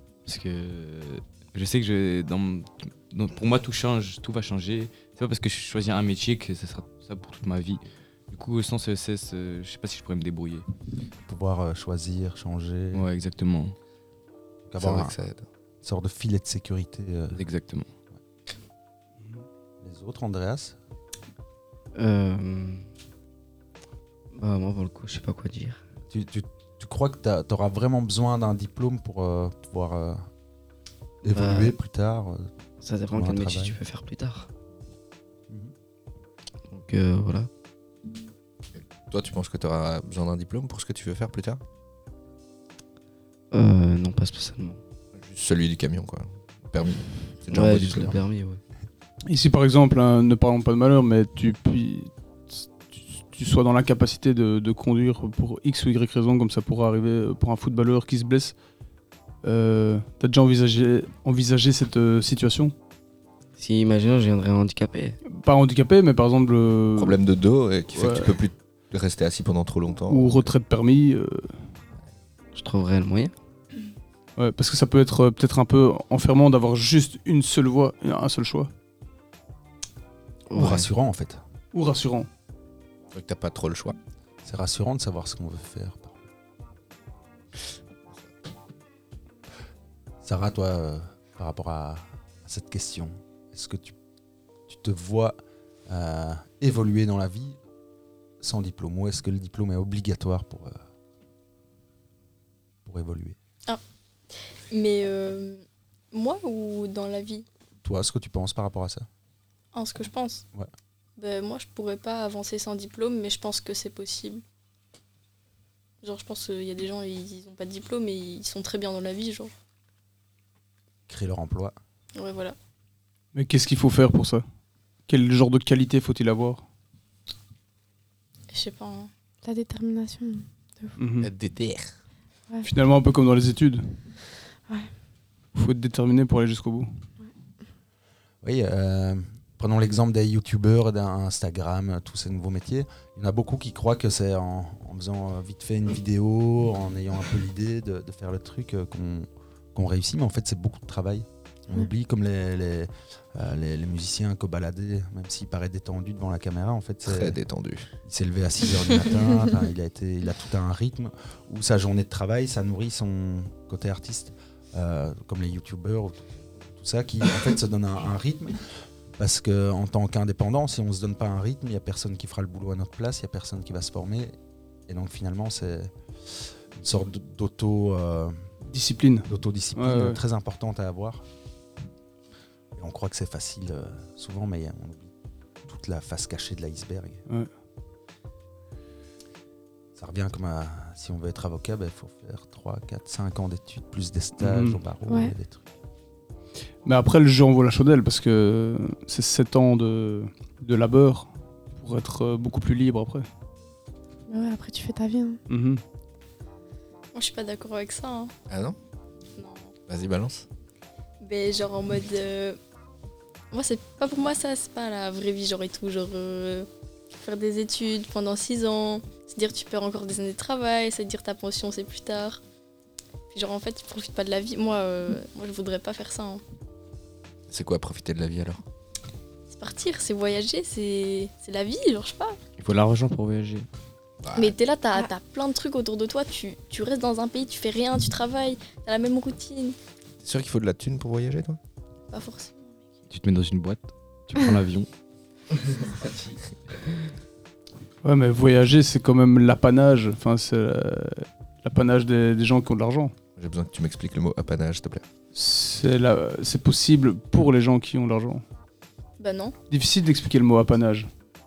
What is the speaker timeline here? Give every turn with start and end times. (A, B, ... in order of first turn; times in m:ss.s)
0:00.2-0:10.6 A
0:11.2-0:13.0 B
0:12.9-0:13.8 A
0:14.7-0:15.1 B
0:14.8-0:15.4 C
0:15.8-0:17.4 B
0:17.3-0:17.9 A
0:19.8-0:20.8 B
0:21.9-0:22.8 D
0:24.3-0:25.8 D
0:26.1-0:30.2 B
0:31.2-0:32.5 B
0:31.3-0:31.8 D
0:32.8-0:34.5 D
0:33.1-0:33.8 B
0:36.7-0:37.5 D
0:38.7-0:41.6 C
0:43.5-0:44.8 D
0:45.2-0:48.2 C
0:47.5-0:48.6 D
0:49.3-0:58.5 E
0:59.4-1:02.7 E
1:03.6-1:05.2 D
1:05.3-1:07.2 E
1:07.0-1:10.5 C
1:07.9-1:08.3 E
1:10.1-1:11.5 E
1:12.5-1:13.3 D
1:14.4-1:18.7 E
1:20.5-1:20.9 D
1:20.5-1:21.4 B
1:21.7-1:22.3 E
1:23.1-1:24.0 C
1:24.4-1:26.2 B
1:30.2-1:33.9 B
1:34.7-1:35.4 B
1:35.9-1:37.6 B
1:38.4-1:40.8 B
1:42.8-1:43.4 B
1:44.7-1:47.4 F
1:47.8-1:49.1 B
1:49.7-1:50.4 F
1:51.2-1:54.4 F
1:56.0-1:59.5 F
2:01.1-2:01.8 B
2:02.1-2:02.6 F
2:03.3-2:04.4 E
2:05.1-2:06.6 E
2:08.5-2:09.1 F
2:09.4-2:10.9 G
2:11.0-2:11.3 E
2:11.2-2:11.9 C
2:12.6-2:13.8 E
2:15.5-2:16.9 E
2:18.4-2:37.4 B
2:37.0-2:37.9 C
2:38.0-2:48.6 B
2:49.2-2:54.3 B
2:54.9-2:58.4 B
2:58.7-3:00.2 E
2:59.3-3:01.2 B
3:02.8-3:05.1 B
3:05.6-3:07.2 B
3:10.0-3:15.7 B
3:14.4-3:14.8 E
3:15.1-3:15.3 G
3:16.8-3:23.2 E
3:24.3-3:25.4 G
3:25.5-3:25.8 E
3:27.1-3:28.3 F
3:28.5-3:28.8 C
3:29.4-3:29.7 F
3:29.9-3:30.4 C
3:31.2-3:32.6 F
3:33.5-3:42.4 F
3:43.3-3:46.4 F
3:47.5-3:48.6 C
3:49.5-3:52.4 F
3:52.6-3:53.7 A
3:54.2-3:54.5 C
3:54.4-3:59.8 F
4:00.2-4:01.6 C
4:02.1-4:02.6 F
4:03.1-4:04.9 A
4:08.0-4:13.1 E
4:13.4-4:15.0 C
4:15.3-4:18.4 E
4:19.2-4:19.5 F
4:19.7-4:21.1 E